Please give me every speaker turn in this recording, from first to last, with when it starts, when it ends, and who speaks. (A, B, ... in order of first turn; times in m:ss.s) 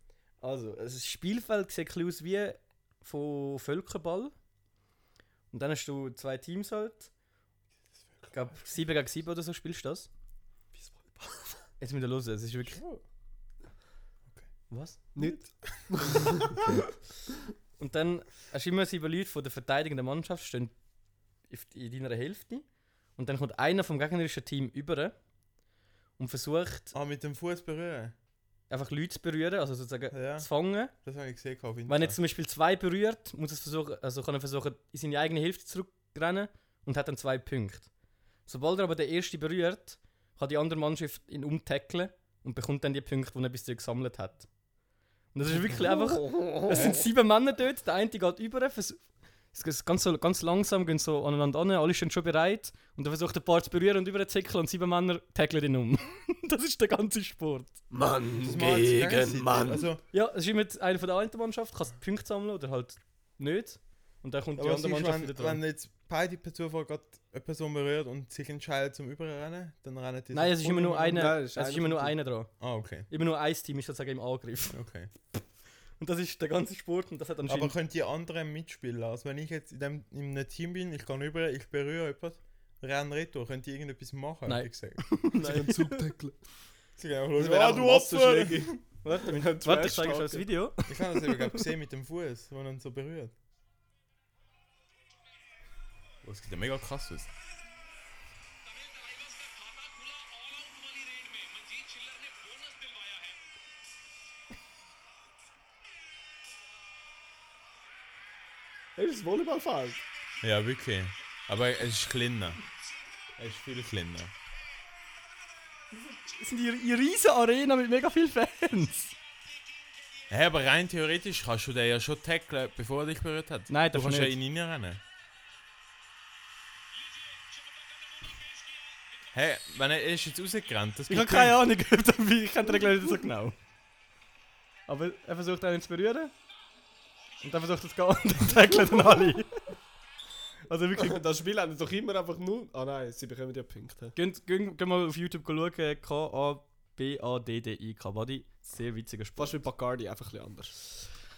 0:00.4-0:04.3 A
0:05.5-0:07.1 A
0:08.1-0:08.6 B
0:08.3-0:10.1 A
0:11.8-0:12.8 A
0:12.7-0:13.0 B
0:14.7-0:15.4 A
0:15.1-0:16.6 C
0:17.8-0:20.7 A
0:21.5-0:22.6 A
0:23.2-0:25.1 A
0:26.2-0:26.9 A
0:26.9-0:28.1 B
0:28.7-0:30.9 A
0:30.1-0:32.2 B
0:31.9-0:37.9 A
0:38.4-0:44.5 A
0:45.3-0:57.8 A
0:46.0-0:47.0 C
0:57.9-0:59.9 C
0:58.4-1:00.0 B
1:00.1-1:05.6 A
1:04.6-1:10.9 B
1:10.3-1:12.5 A
1:10.6-1:12.1 C
1:12.6-1:13.1 B
1:13.1-1:14.8 A
1:14.7-1:15.1 B
1:16.0-1:17.7 A
1:17.5-1:25.0 B
1:24.4-1:26.1 A
1:25.3-1:26.3 C
1:27.0-1:28.8 B
1:27.3-1:30.4 C
1:29.0-1:31.6 A
1:30.9-1:33.3 B
1:36.2-1:37.3 B
1:49.0-1:50.0 C
1:50.4-1:52.6 B
1:53.4-1:54.3 B
1:56.0-1:59.1 A
2:00.3-2:05.0 B
2:03.7-2:04.4 A
2:09.3-2:11.6 B
2:11.1-2:13.6 A
2:14.9-2:16.3 A
2:17.4-2:19.6 A
2:20.7-2:21.2 A
2:21.0-2:24.1 C
2:24.1-2:29.6 A
2:29.4-2:30.8 C